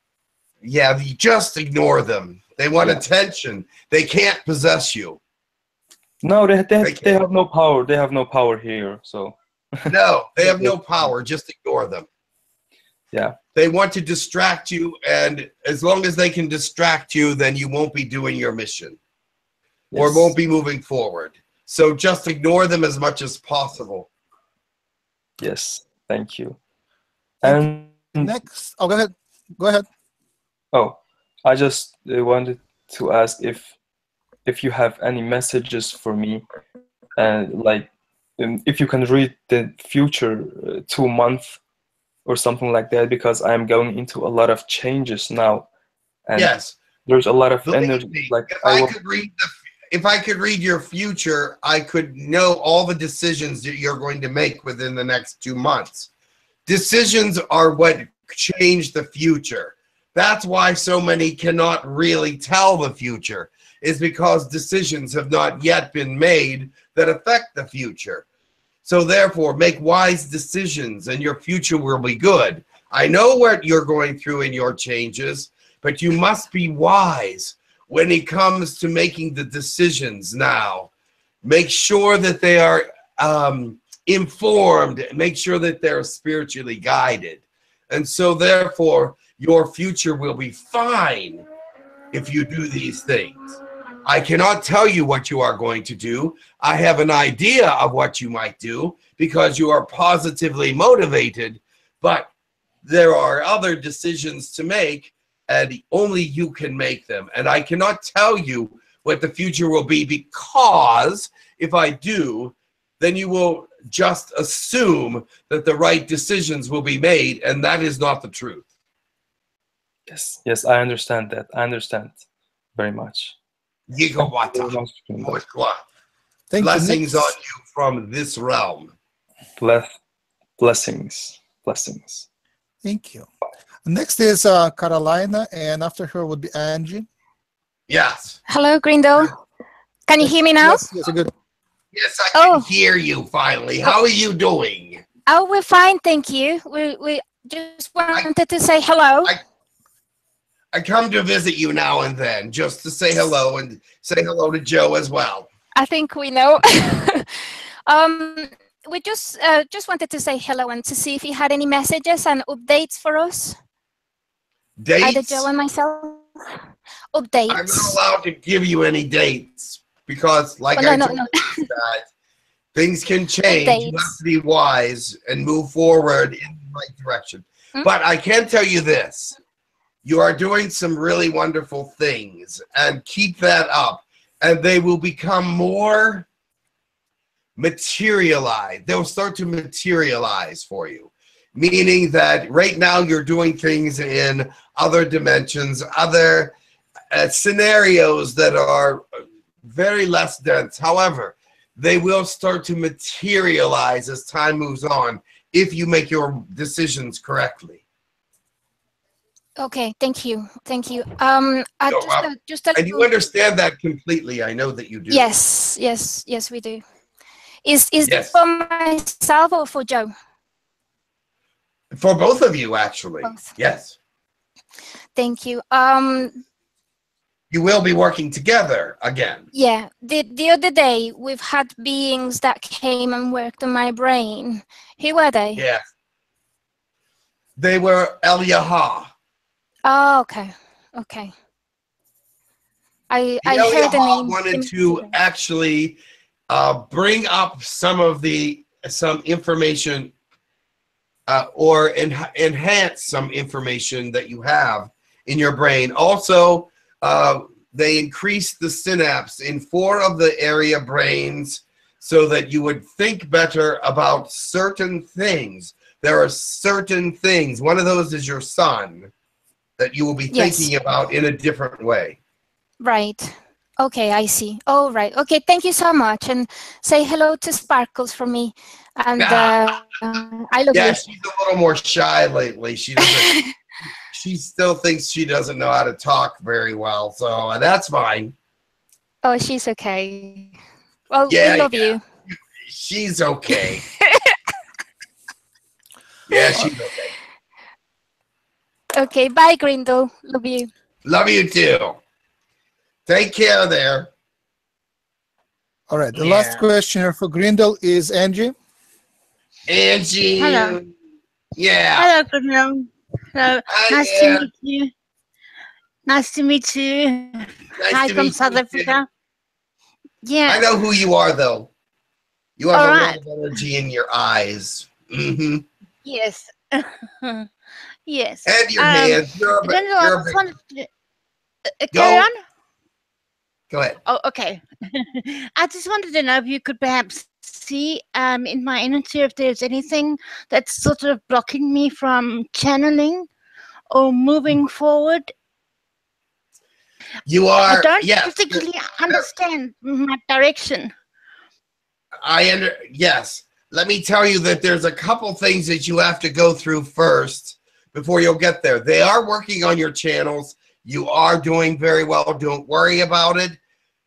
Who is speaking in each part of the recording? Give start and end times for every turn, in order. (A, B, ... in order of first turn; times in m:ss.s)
0:00.6-0:05.2 A
0:06.2-0:10.8 B
0:06.8-0:07.2 A
0:09.9-0:12.1 A
0:13.6-0:19.0 A
0:19.9-0:20.3 B
0:19.9-0:24.1 A
0:25.4-0:26.6 B
0:27.4-0:28.3 B
0:27.4-0:29.9 C
0:30.7-0:33.7 B
0:34.5-0:36.4 B
0:37.2-0:41.6 B
0:42.3-0:45.7 B
0:46.3-0:46.5 B
0:46.4-0:46.8 A
0:47.1-0:48.9 B
0:47.7-0:56.1 A
0:56.7-1:08.2 A
1:08.8-1:20.9 A
1:21.4-1:31.4 A
1:32.1-1:33.5 A
1:34.0-1:42.3 A
1:42.8-1:58.7 A
2:00.1-2:02.2 B
2:02.8-2:03.4 B
2:03.9-2:05.8 A
2:04.1-2:05.4 B
2:06.5-2:07.4 C
2:06.6-2:08.9 A
2:09.6-2:09.9 B
2:10.6-2:12.3 B
2:12.8-2:13.3 C
2:13.9-2:17.1 C
2:17.9-2:18.4 A
2:18.5-2:19.3 D
2:20.1-2:20.8 D
2:20.2-2:21.3 C
2:21.9-2:25.0 A
2:22.4-2:22.7 D
2:25.3-2:29.3 D
2:30.7-2:35.5 A
2:35.8-2:43.6 D
2:44.8-2:45.5 A
2:45.0-2:46.3 D
2:47.1-2:48.0 D
2:47.5-2:52.1 A
2:50.8-2:51.7 D
2:52.8-2:59.4 A
2:53.5-2:54.2 D
3:00.0-3:06.3 A
3:07.6-3:16.6 A
3:17.1-3:19.1 A
3:19.6-3:27.8 A
3:29.6-3:33.1 D
3:31.9-3:35.3 A
3:35.1-3:36.8 D
3:37.6-3:40.1 D
3:38.0-3:38.4 A
3:41.9-3:44.0 A
3:43.2-3:43.5 D
3:45.2-3:46.4 D
3:47.5-3:49.5 A
3:49.5-3:55.6 D
3:55.5-3:55.8 A
3:57.6-3:59.1 A
3:59.8-4:01.3 D
4:03.1-4:05.1 D
4:03.4-4:06.0 A
4:06.5-4:10.1 A
4:11.3-4:29.1 A
4:29.8-4:32.2 A
4:30.3-4:30.7 D
4:32.8-4:41.0 D
4:39.2-4:39.8 A
4:40.7-4:43.3 A
4:43.0-4:43.5 D
4:44.1-4:48.3 A
4:49.2-4:50.5 D
4:51.1-4:52.0 D
4:51.3-4:53.8 A
4:56.3-4:57.1 A
4:56.3-4:56.7 D
4:59.0-5:00.7 D
5:01.0-5:02.0 A
5:03.1-5:04.1 A
5:05.9-5:08.6 C
5:06.1-5:06.6 A
5:09.7-5:10.9 A
5:10.4-5:10.8 E
5:11.6-5:12.1 A
5:12.0-5:14.9 E
5:13.7-5:14.5 A
5:16.1-5:19.1 E
5:17.8-5:19.0 A
5:20.2-5:20.7 E
5:20.5-5:21.7 A
5:22.6-5:25.7 A
5:22.7-5:23.2 E
5:26.0-5:27.5 E
5:28.1-5:30.9 E
5:28.4-5:30.4 A
5:31.8-5:32.4 E
5:31.9-5:32.3 A
5:33.7-5:34.0 A
5:34.0-5:43.3 E
5:43.9-5:45.3 E
5:47.3-5:49.3 A
5:47.7-5:50.9 E
5:52.2-6:03.6 A